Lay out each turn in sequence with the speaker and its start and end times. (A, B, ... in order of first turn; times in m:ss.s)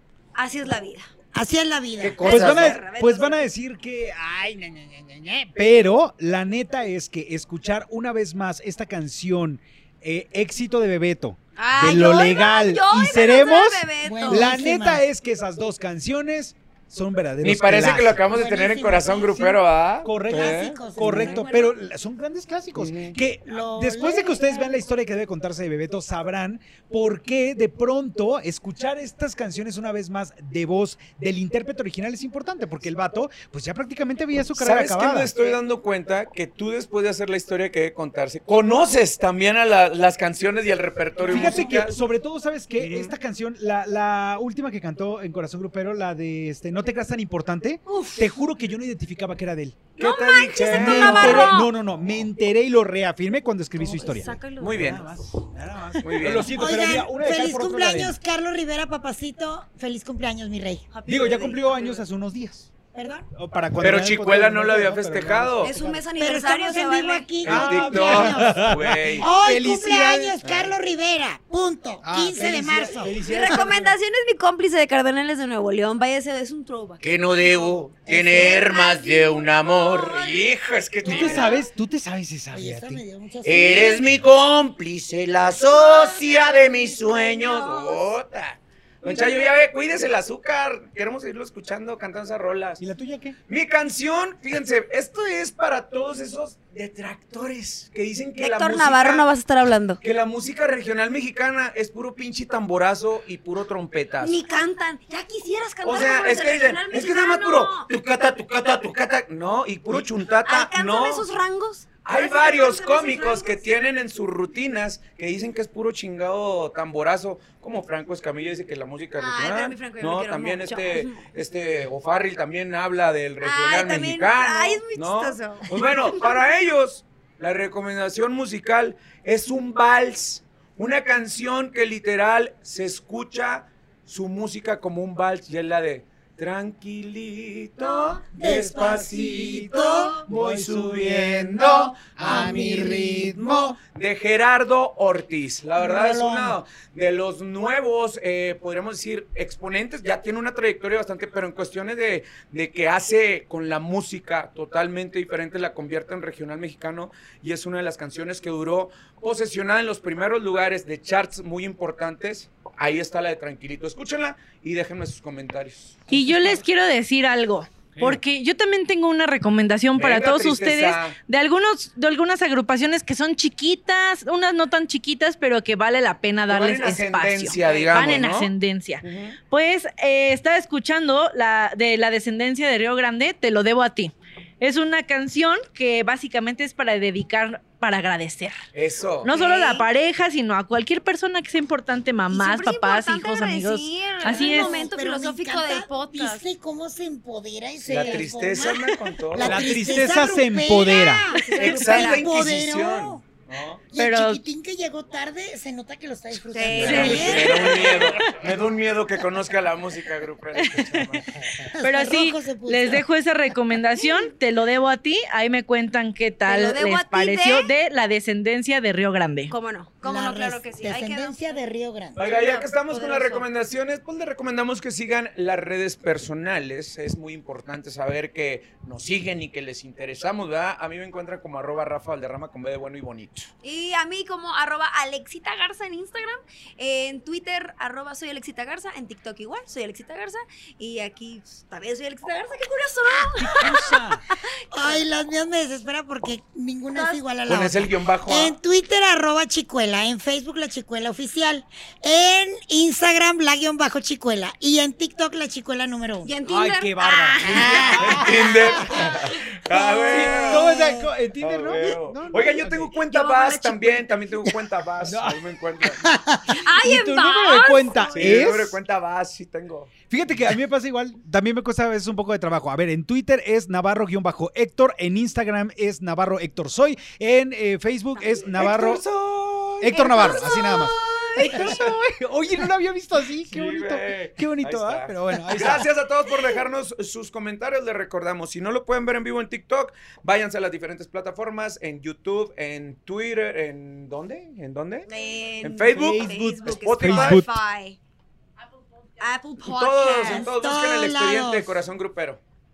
0:00.4-0:01.1 A
0:01.3-0:02.4 B
0:02.0-0:02.8 C
0:02.1-0:03.4 A
0:02.3-0:18.3 D
0:11.6-0:14.6 A
0:14.0-0:15.0 B
0:17.4-0:21.3 C
0:18.3-0:19.6 B
0:20.0-0:35.3 D
0:20.3-0:21.5 B
0:21.1-0:21.7 A
0:22.7-0:23.1 C
0:23.5-0:24.7 B
0:34.6-0:42.0 C
0:41.2-0:49.8 D
0:42.8-0:43.1 C
0:47.8-0:48.3 A
0:50.0-0:51.5 C
0:50.0-0:51.7 A
0:50.6-0:58.2 D
0:53.8-0:54.8 A
0:54.6-0:55.0 C
0:56.0-0:56.6 C
0:56.6-1:00.8 B
1:00.9-1:02.0 A
1:01.1-1:02.7 D
1:02.9-1:03.3 B
1:03.3-1:06.0 D
1:03.8-1:05.7 C
1:05.6-1:07.3 A
1:06.2-1:08.6 B
1:07.4-1:09.3 C
1:07.4-1:10.4 D
1:09.2-1:13.6 B
1:10.4-1:10.7 C
1:12.0-1:14.0 D
1:13.2-1:20.5 A
1:17.0-1:21.6 C
1:18.1-1:18.6 B
1:21.0-1:23.0 D
1:21.0-1:21.6 A
1:22.5-1:24.1 B
1:23.4-1:32.8 C
1:25.6-1:28.0 A
1:29.0-1:29.5 A
1:32.8-1:33.4 D
1:33.5-1:39.2 C
1:38.4-1:40.0 A
1:40.0-1:44.4 C
1:44.2-1:47.9 A
1:45.8-1:51.3 C
1:50.4-1:53.6 A
1:52.0-2:46.0 C
1:59.2-2:01.2 A
2:03.4-2:06.2 A
2:18.3-2:20.2 B
2:20.2-2:23.4 D
2:22.2-2:23.3 B
2:25.8-2:26.6 B
2:46.1-3:08.6 E
2:49.9-2:51.2 C
2:56.5-2:58.5 C
2:57.6-2:58.1 A
2:59.0-2:59.4 C
3:08.7-3:09.3 C
3:09.2-3:14.8 E
3:09.3-3:09.8 A
3:12.3-3:16.4 A
3:14.2-3:23.2 B
3:17.9-3:19.8 C
3:17.9-3:18.2 D
3:19.3-3:21.4 D
3:21.3-3:22.3 A
3:21.6-3:23.8 C
3:23.9-3:27.9 B
3:23.9-3:24.4 E
3:26.4-3:28.2 A
3:26.7-3:31.3 C
3:26.8-3:27.6 E
3:30.6-3:31.2 E
3:31.8-3:33.0 B
3:31.8-3:39.5 E
3:34.0-3:34.3 A
3:36.4-3:37.7 A
3:39.5-3:41.6 A
3:40.0-3:42.2 B
3:42.1-3:53.5 C
3:42.2-3:43.5 A
3:53.6-4:05.0 A
4:03.3-4:04.2 D
4:04.7-4:16.3 B
4:06.9-4:07.2 A
4:07.4-4:08.6 C
4:16.2-4:19.4 A
4:16.5-4:18.9 D
4:17.5-4:19.1 B
4:18.0-4:20.7 C
4:19.7-4:21.1 B
4:20.0-4:20.6 A
4:20.1-4:22.9 D
4:21.4-4:26.0 C
4:23.1-4:24.1 A
4:25.0-4:25.4 D
4:26.0-4:26.4 B
4:26.5-4:28.3 A
4:26.7-4:28.8 D
4:28.2-4:29.9 C
4:30.1-4:39.0 D
4:38.5-4:41.8 C
4:39.8-4:45.9 D
4:39.9-4:41.7 A
4:43.5-4:55.1 C
4:55.1-4:58.0 A
4:55.6-4:57.4 C
4:55.9-4:57.5 D
4:59.2-5:00.5 A
4:59.6-5:02.4 C
5:00.2-5:01.7 B